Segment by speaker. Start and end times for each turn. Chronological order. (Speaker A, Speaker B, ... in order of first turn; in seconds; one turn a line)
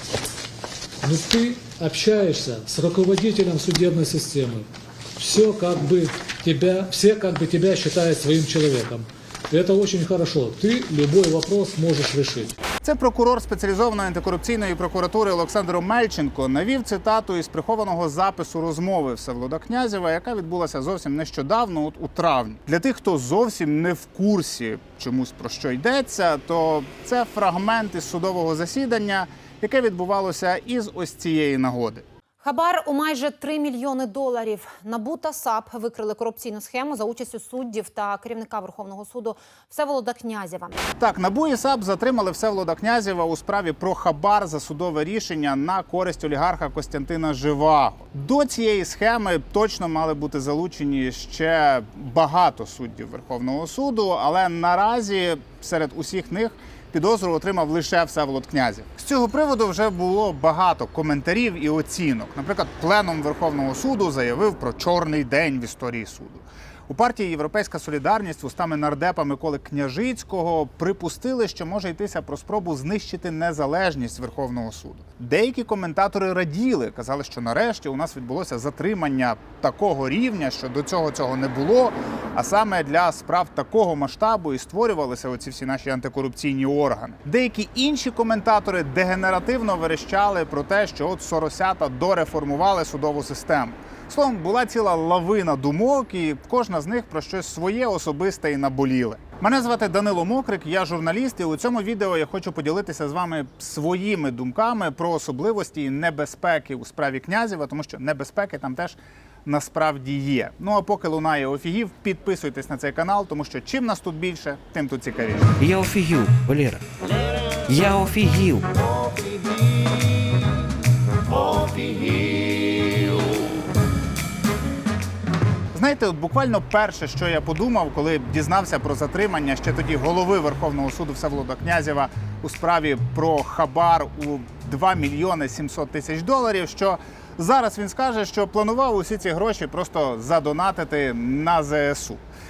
Speaker A: 1.1-4.6
Speaker A: 5.2-12.4
Speaker B: 12.8-32.0
Speaker C: 32.4-40.8
Speaker B: 41.0-115.5
Speaker D: 115.6-116.8
Speaker D: 117.7-118.7
Speaker B: 125.7-142.2